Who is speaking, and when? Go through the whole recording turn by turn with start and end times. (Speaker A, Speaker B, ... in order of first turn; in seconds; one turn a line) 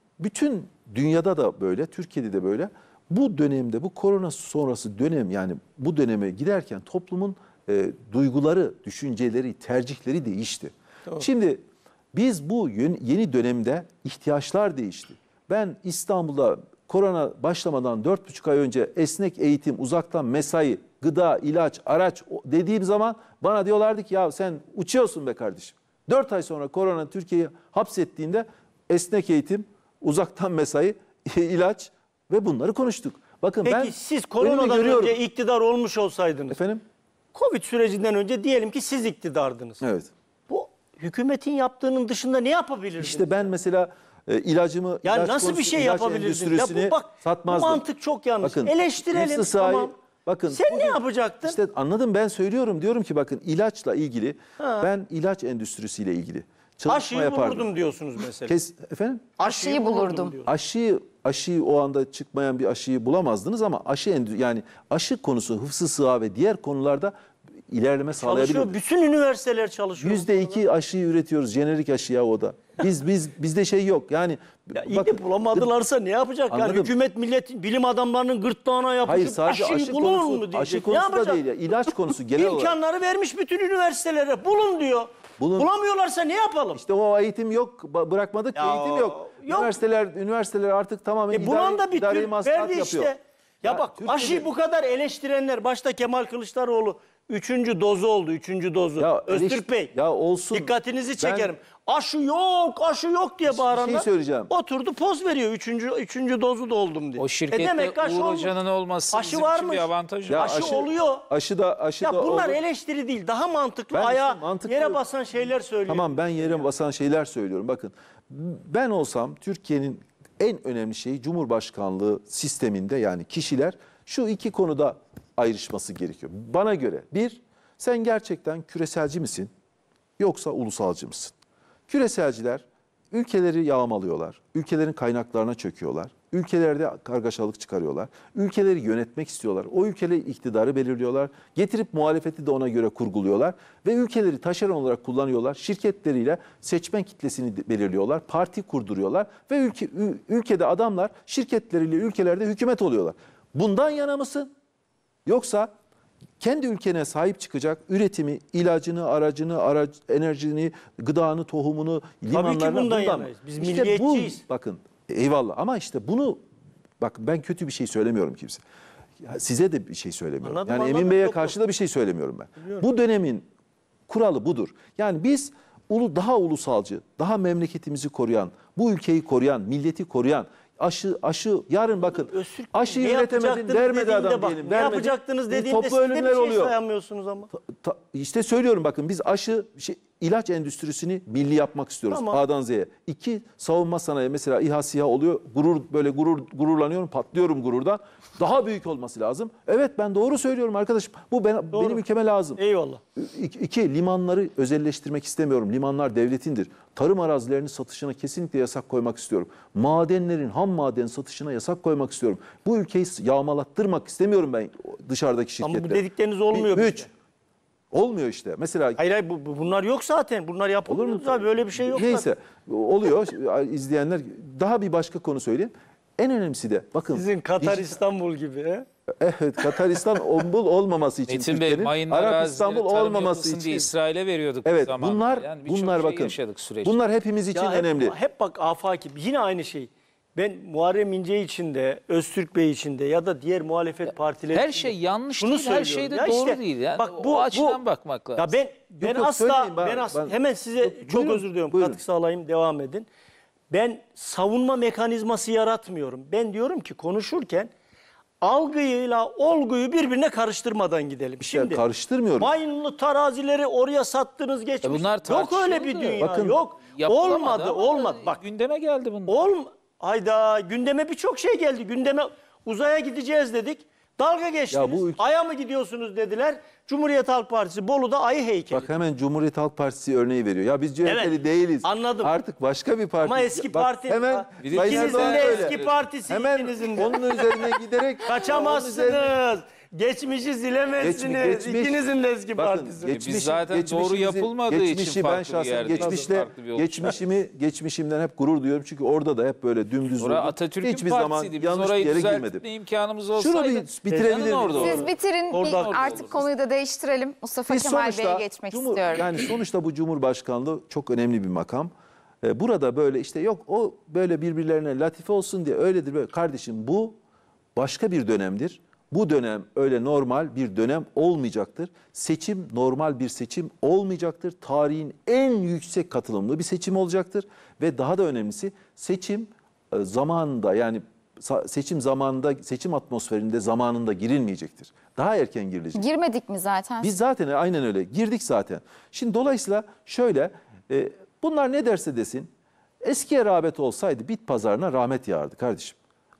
Speaker A: 0.2-11.6
Speaker A: 12.1-35.2
Speaker B: 33.6-36.6
Speaker A: 36.5-36.8
Speaker B: 37.3-39.8
Speaker A: 39.8-40.1
Speaker B: 40.5-43.5
Speaker A: 43.0-47.8
Speaker B: 45.0-49.9
Speaker A: 48.4-57.7
Speaker B: 50.5-51.6
Speaker B: 54.6-54.9
Speaker B: 56.9-58.5
Speaker A: 58.5-59.3
Speaker C: 59.4-60.4
Speaker B: 59.4-60.5
Speaker A: 60.5-67.1
Speaker A: 67.7-68.8
Speaker B: 68.2-70.4
Speaker A: 70.0-75.7
Speaker B: 74.8-81.4
Speaker A: 76.5-76.9
Speaker A: 79.0-82.8
Speaker B: 82.3-86.8
Speaker A: 85.4-85.7
Speaker A: 86.8-93.1
Speaker B: 88.6-89.8
Speaker B: 91.3-99.9
Speaker A: 93.6-94.5
Speaker A: 99.0-101.5
Speaker B: 100.5-108.5
Speaker A: 103.5-104.5
Speaker D: 107.2-110.7
Speaker B: 109.1-111.2
Speaker A: 110.3-112.6
Speaker B: 112.0-116.7
Speaker A: 113.9-115.0
Speaker A: 115.9-129.5
Speaker A: 130.2-131.3
Speaker A: 131.9-154.5
Speaker A: 155.3-155.7
Speaker A: 156.4-166.4
Speaker B: 162.3-164.4
Speaker A: 167.0-168.6
Speaker A: 169.2-173.5
Speaker B: 170.4-171.6
Speaker A: 174.1-186.7
Speaker B: 182.1-187.5
Speaker A: 187.5-202.6
Speaker B: 192.1-192.4
Speaker B: 201.7-202.0
Speaker B: 202.6-203.0
Speaker A: 203.2-217.1
Speaker B: 215.6-217.1
Speaker A: 217.9-219.0
Speaker B: 219.0-222.3
Speaker A: 220.9-228.0
Speaker B: 227.1-228.9
Speaker A: 229.2-233.9
Speaker D: 231.3-237.0
Speaker A: 234.6-238.2
Speaker B: 237.5-247.8
Speaker D: 244.1-248.5
Speaker B: 248.4-253.1
Speaker A: 249.0-252.0
Speaker B: 253.7-257.7
Speaker B: 258.4-261.8
Speaker A: 261.4-262.5
Speaker B: 262.4-268.4
Speaker D: 264.8-266.3
Speaker A: 266.2-266.6
Speaker D: 266.8-269.4
Speaker B: 269.3-278.9
Speaker A: 274.7-275.2
Speaker A: 278.7-289.4
Speaker B: 281.1-282.4
Speaker B: 283.2-293.2
Speaker D: 284.6-286.0
Speaker A: 291.0-292.0
Speaker A: 292.6-302.6
Speaker D: 293.1-297.2
Speaker D: 300.2-306.5
Speaker A: 303.4-305.1
Speaker B: 304.1-306.4
Speaker C: 304.8-309.3
Speaker A: 307.7-317.2
Speaker A: 317.8-336.1
Speaker C: 335.9-337.1
Speaker A: 337.0-342.5
Speaker A: 343.0-346.0